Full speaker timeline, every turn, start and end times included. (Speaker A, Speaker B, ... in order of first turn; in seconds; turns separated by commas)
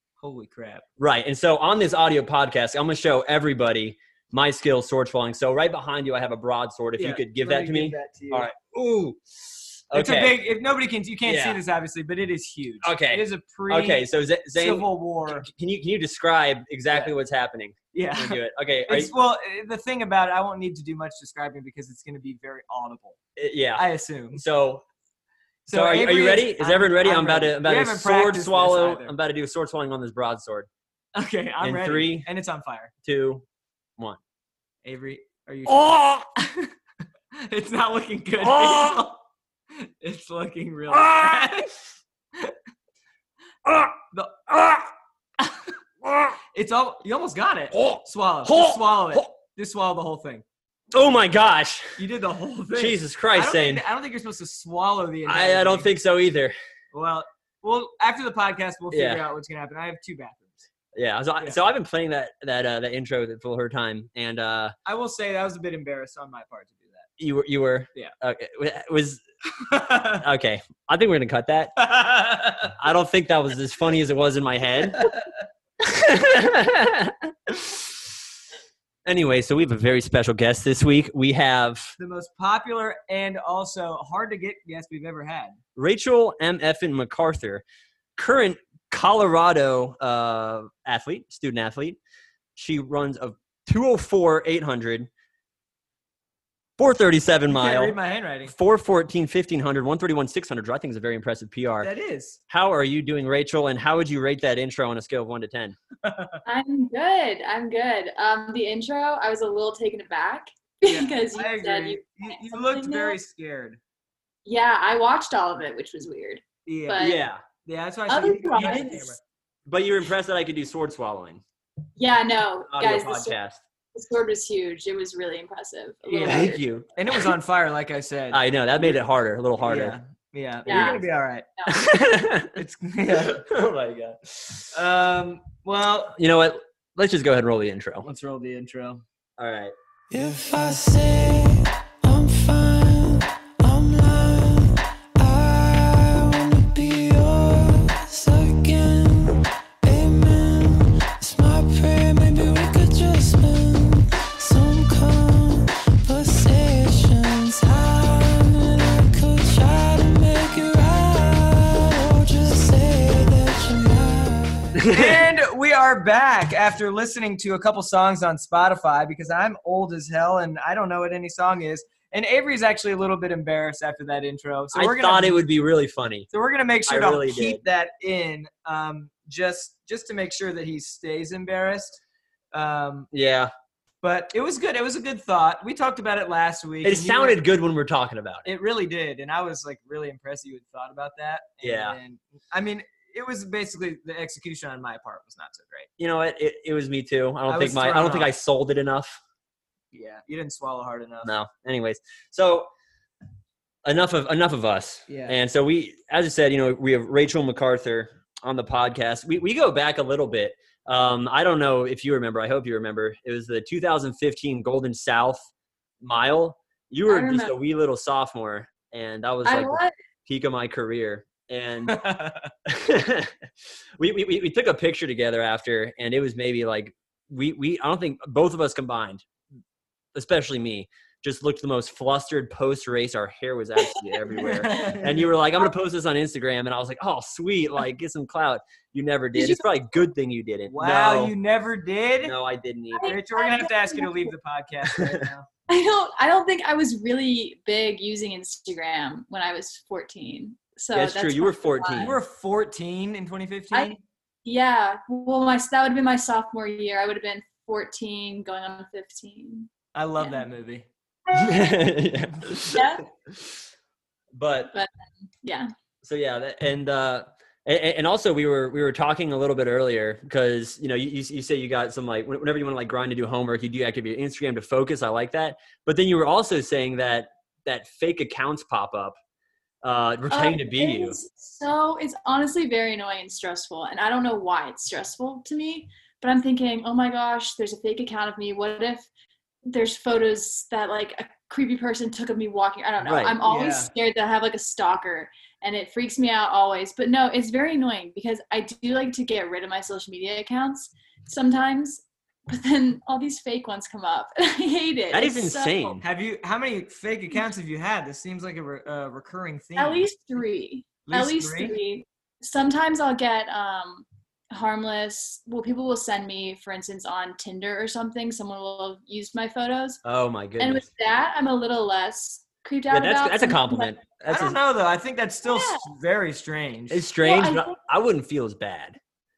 Speaker A: 0.2-0.8, Speaker B: 1.0-10.4, Speaker A: 7.0-8.5, Speaker A: 9.9-15.5, Speaker B: 11.2-11.6, Speaker B: 12.8-14.9, Speaker B: 15.4-19.1, Speaker A: 17.9-23.2, Speaker B: 23.4-24.9, Speaker A: 23.8-24.4, Speaker A: 25.6-29.1, Speaker B: 25.7-30.7, Speaker A: 31.1-32.9, Speaker B: 31.6-32.3, Speaker B: 33.0-33.4, Speaker A: 34.8-36.7, Speaker B: 35.7-36.2, Speaker A: 37.3-39.2, Speaker B: 38.4-39.1, Speaker A: 39.7-41.7, Speaker B: 40.9-41.5, Speaker B: 43.6-44.0, Speaker A: 44.1-44.5, Speaker B: 44.5-44.9, Speaker A: 45.4-45.7, Speaker B: 46.0-46.3, Speaker A: 46.5-50.4, Speaker B: 47.7-49.3, Speaker B: 50.9-52.0, Speaker A: 52.0-55.9, Speaker B: 52.7-53.8, Speaker B: 55.2-56.5, Speaker A: 56.9-60.7, Speaker B: 58.9-59.2, Speaker B: 60.9-64.7, Speaker A: 64.8-67.1, Speaker B: 67.2-69.2, Speaker A: 69.7-70.2, Speaker B: 70.0-71.8, Speaker A: 71.8-72.7, Speaker B: 72.8-75.1, Speaker B: 75.8-78.0, Speaker B: 79.0-81.9, Speaker A: 82.0-85.6, Speaker B: 85.8-87.6, Speaker B: 88.2-92.0, Speaker B: 92.5-95.1, Speaker B: 96.8-97.9, Speaker A: 97.5-98.5, Speaker B: 98.5-101.9, Speaker A: 101.8-102.4, Speaker B: 102.5-105.8, Speaker A: 106.0-106.4, Speaker C: 106.4-113.2, Speaker A: 110.8-113.8, Speaker C: 114.4-117.2, Speaker A: 116.7-117.1, Speaker B: 117.0-117.4, Speaker A: 117.6-119.2, Speaker C: 118.1-119.1, Speaker B: 118.6-118.9, Speaker B: 119.7-121.4, Speaker C: 122.0-123.3, Speaker B: 122.7-123.6, Speaker C: 123.9-126.6, Speaker A: 126.1-129.0, Speaker B: 126.2-126.9, Speaker B: 128.3-130.0, Speaker A: 129.6-131.4, Speaker B: 130.7-131.0, Speaker C: 130.7-131.0, Speaker C: 131.6-131.9, Speaker B: 131.7-132.6, Speaker A: 132.6-133.4, Speaker B: 133.1-134.7, Speaker A: 134.7-136.2, Speaker B: 136.2-138.1, Speaker A: 138.0-139.0, Speaker B: 139.4-139.7, Speaker D: 140.1-164.7, Speaker B: 164.8-165.2, Speaker A: 164.9-175.4, Speaker B: 174.7-176.3, Speaker A: 176.3-182.0, Speaker B: 176.9-177.6, Speaker A: 182.5-183.1, Speaker B: 183.1-183.5, Speaker A: 184.0-187.4, Speaker B: 186.8-188.5, Speaker A: 188.4-195.9, Speaker B: 191.6-191.9, Speaker B: 196.0-199.2, Speaker A: 197.5-198.3, Speaker A: 199.9-201.3, Speaker B: 201.2-202.7, Speaker B: 203.8-215.5, Speaker A: 205.1-205.4, Speaker B: 216.0-222.0, Speaker C: 217.1-217.5, Speaker C: 219.4-219.9, Speaker A: 221.9-222.5, Speaker B: 222.7-223.3, Speaker B: 224.0-229.2, Speaker B: 230.1-241.4, Speaker C: 234.0-235.0, Speaker A: 234.4-235.3, Speaker C: 239.3-239.6, Speaker A: 240.7-242.3, Speaker B: 242.2-243.2, Speaker C: 242.9-244.3, Speaker A: 243.0-245.5, Speaker B: 244.9-245.2, Speaker C: 245.7-252.1, Speaker B: 250.9-252.2, Speaker A: 252.0-254.0, Speaker C: 254.4-260.4, Speaker A: 259.9-260.9, Speaker C: 261.3-261.7, Speaker B: 261.3-262.9, Speaker C: 262.7-263.1, Speaker B: 264.3-264.7, Speaker C: 265.4-265.7, Speaker B: 266.0-279.2, Speaker B: 279.8-281.2, Speaker C: 280.3-289.1, Speaker C: 289.6-305.9, Speaker B: 293.0-293.4, Speaker A: 293.4-293.9, Speaker B: 305.1-306.0, Speaker A: 306.0-310.1, Speaker C: 309.8-320.0, Speaker A: 311.1-311.8, Speaker B: 320.0-320.8, Speaker C: 320.6-323.9, Speaker B: 322.9-324.6, Speaker A: 324.2-327.0, Speaker C: 325.4-325.9, Speaker B: 326.9-329.0, Speaker C: 327.2-327.8